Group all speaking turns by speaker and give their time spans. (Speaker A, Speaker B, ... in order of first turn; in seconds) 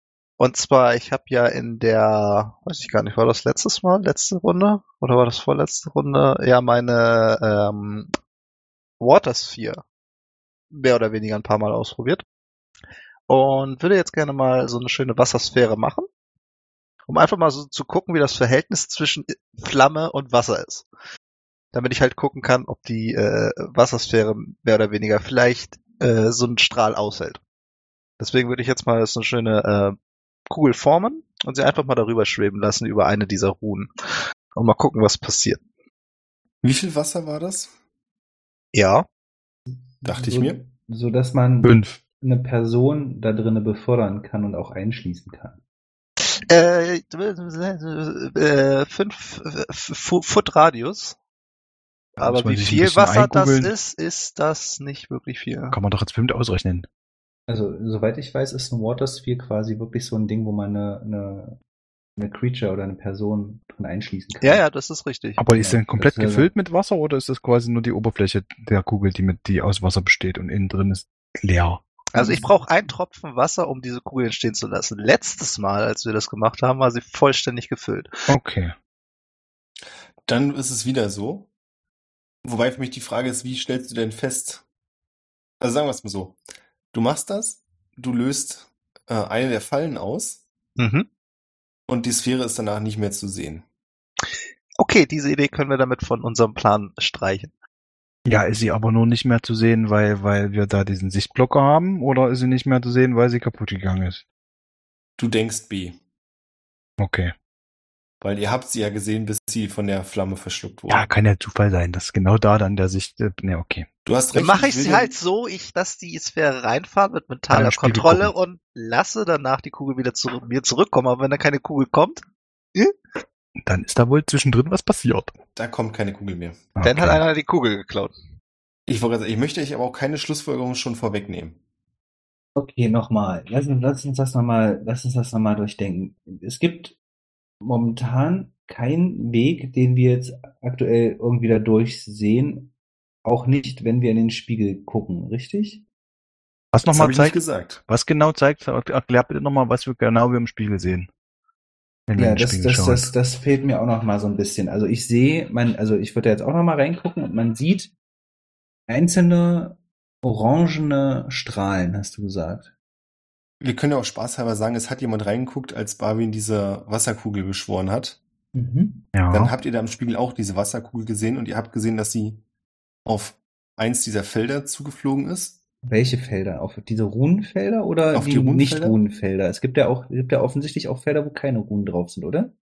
Speaker A: 0.4-8.1, 9.0-9.8, 10.7-12.2, 13.3-16.1, 17.1-20.9, 21.7-27.4, 28.2-29.9, 30.5-33.9, 34.5-35.6, 38.7-39.0, 46.2-51.2, 52.2-55.8, 64.4-65.4, 72.1-78.1, 90.8-91.1, 94.8-97.5, 114.3-122.2, 126.8-128.1
Speaker B: 36.6-37.7, 40.0-40.6, 80.3-81.5, 82.4-84.6, 85.6-86.4, 86.9-90.4, 91.9-93.6, 105.2-106.0, 108.2-111.1, 114.0-115.1, 125.5-126.6, 128.9-131.6, 146.9-147.8, 163.6-168.2, 169.3-172.4, 173.1-175.6, 178.1-179.0
Speaker C: 39.7-45.6, 57.5-61.6, 62.2-64.6, 65.4-66.5, 132.6-137.0, 137.6-142.7, 143.2-145.8, 152.2-157.9, 158.9-162.7, 168.5-169.1, 175.8-182.5
Speaker D: 41.6-42.0, 52.2-53.7, 55.7-56.9, 65.4-72.5, 78.3-78.7, 98.2-104.2, 107.0-107.3, 110.9-113.9, 117.5-118.3, 123.6-125.3, 126.8-127.2, 146.7-151.1, 152.1-153.1, 169.1-169.5